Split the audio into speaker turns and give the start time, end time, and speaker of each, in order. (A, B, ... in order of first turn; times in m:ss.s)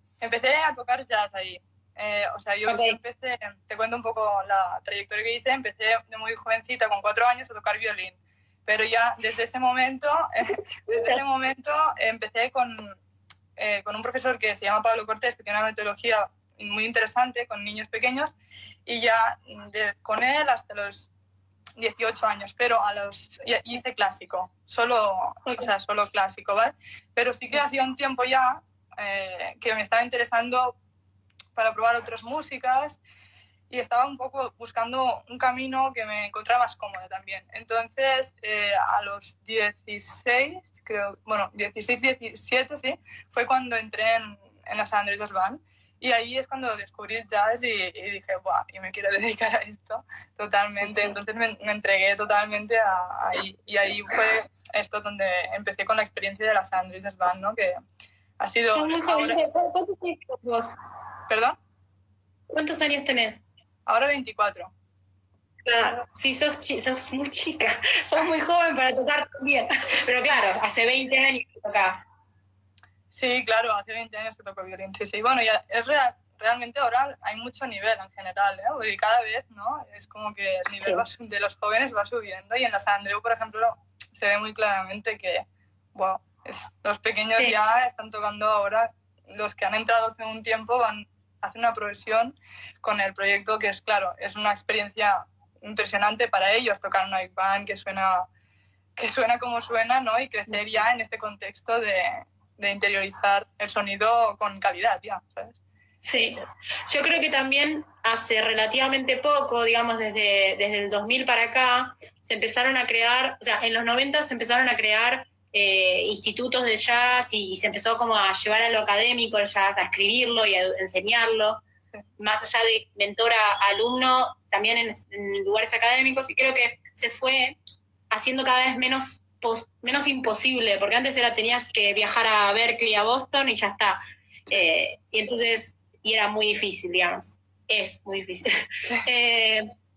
0:00.2-0:13.0 A
0:02.7-0:03.0 B
0:13.6-0:18.3 A
0:18.8-0:21.1 A
0:21.8-0:30.8 A
0:25.4-0:25.7 B
0:31.6-0:33.0 A
0:33.7-0:57.8 A
0:50.8-0:51.2 B
0:58.4-0:59.4 A
0:58.7-1:00.7 B
1:01.3-1:01.6 A
1:02.5-1:03.4 B
1:03.9-1:04.7 A
1:05.6-1:12.1 B
1:13.1-1:38.3 A
1:39.0-1:45.6 A
1:46.0-2:01.6 B
2:02.2-2:07.6 B
2:08.1-2:19.7 B